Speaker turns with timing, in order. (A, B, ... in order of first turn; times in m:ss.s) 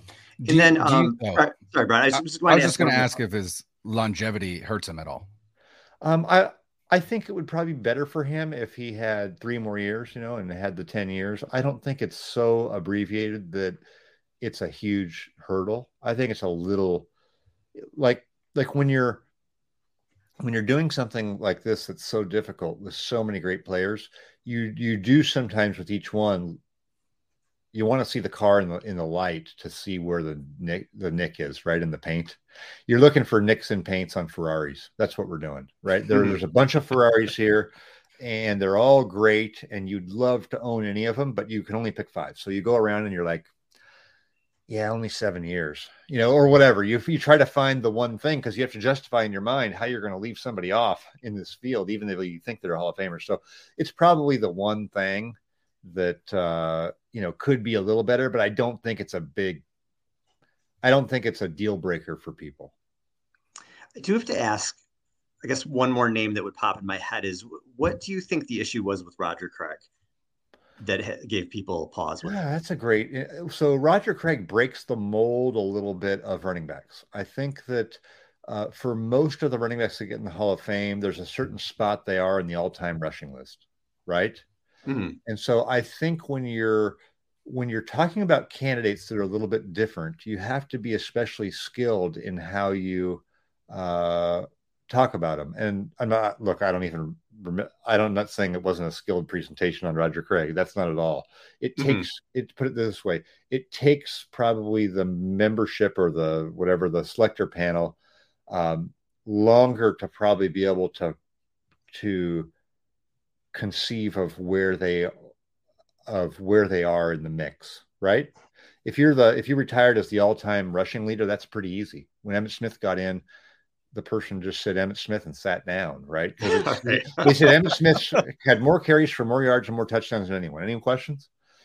0:00.4-0:03.1 A
0:00.4-0:01.4 B
0:02.1-0:05.3 B
0:06.0-0:13.8 C
0:14.4-0:17.1 C
0:17.8-0:19.2 C
0:20.4-0:26.6 C
0:27.7-0:43.5 C
0:44.7-0:59.6 C
1:00.8-1:02.7 C
1:04.0-1:04.8 A
1:05.4-1:09.8 A
1:10.8-1:12.4 A
1:12.2-1:24.4 C
1:24.9-1:25.2 A
1:25.3-1:48.0 C
1:41.8-1:42.1 A
1:48.5-1:51.2 C
1:51.9-1:52.5 C
1:53.5-1:55.1 C
1:56.1-1:58.3 C
1:58.8-2:03.2 C
2:03.9-2:11.3 C
2:06.4-2:07.8 A